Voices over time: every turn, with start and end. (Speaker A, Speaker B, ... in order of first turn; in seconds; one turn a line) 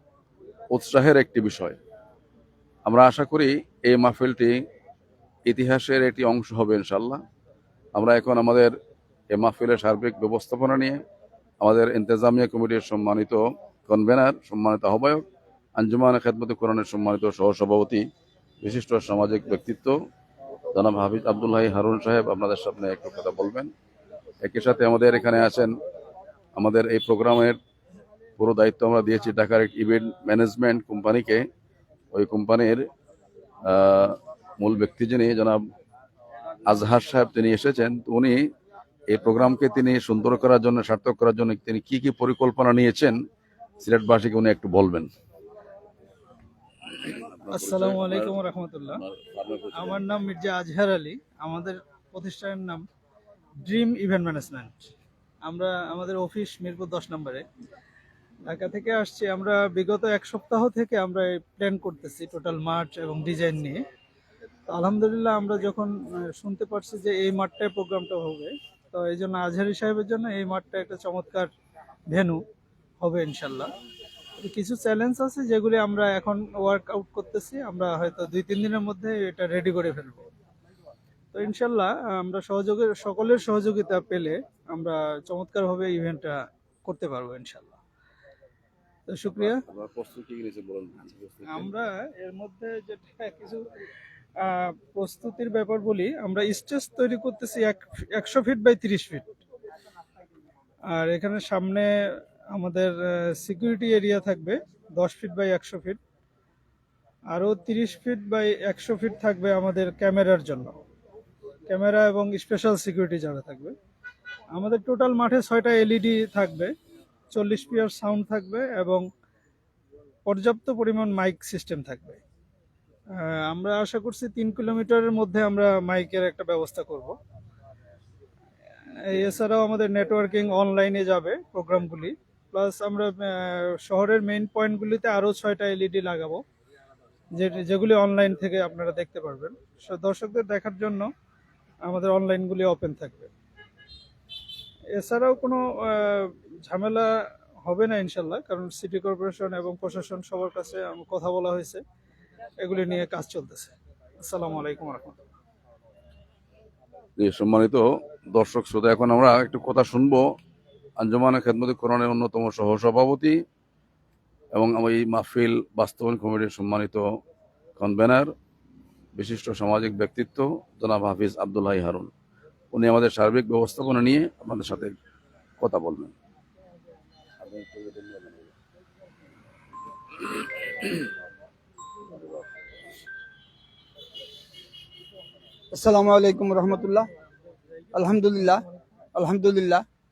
Speaker A: 0.7-1.8
Speaker A: 2.9-4.5
Speaker A: 5.5-7.2
Speaker A: 8.0-8.7
Speaker A: 9.3-11.0
Speaker A: 11.6-15.2
Speaker A: 15.8-18.0
Speaker A: 18.6-19.9
Speaker A: 20.7-23.7
Speaker A: 24.4-25.7
Speaker A: 26.6-27.6
Speaker A: 28.4-31.4
Speaker A: 32.1-32.8
Speaker A: 33.7-35.6
Speaker A: 36.7-38.4
Speaker A: 39.1-43.2
Speaker A: 43.8-45.1
Speaker A: 47.0-48.4
Speaker B: 47.5-49.0
Speaker A: 49.0-50.0
Speaker B: 49.7-52.8
Speaker B: 53.7-54.9
Speaker B: 55.5-57.4
Speaker B: 58.5-63.8
Speaker B: 64.7-71.5
Speaker B: 72.1-72.4
Speaker B: 73.0-73.7
Speaker B: 74.4-80.3
Speaker B: 81.3-87.8
Speaker B: 89.1-89.6
Speaker A: 89.4-91.7
Speaker B: 91.5-93.6
Speaker B: 94.5-99.3
Speaker B: 101.0-101.9
Speaker B: 102.5-106.0
Speaker B: 107.3-110.8
Speaker B: 111.7-113.7
Speaker B: 114.5-116.7
Speaker B: 117.3-119.0
Speaker B: 120.3-122.2
Speaker B: 123.5-127.2
Speaker B: 129.1-136.4
Speaker B: 137.4-141.1
Speaker B: 141.9-143.3
Speaker B: 145.0-147.1
Speaker B: 147.7-151.8
Speaker B: 152.6-153.7
Speaker B: 154.3-155.2
Speaker A: 157.2-160.2
Speaker A: 161.0-163.3
Speaker A: 164.6-167.0
Speaker A: 167.8-168.3
Speaker A: 169.2-172.1
Speaker A: 172.7-174.9
Speaker A: 175.6-176.1
Speaker A: 177.4-178.5
Speaker C: 185.7-187.0
Speaker C: 187.9-188.6
Speaker C: 189.2-189.8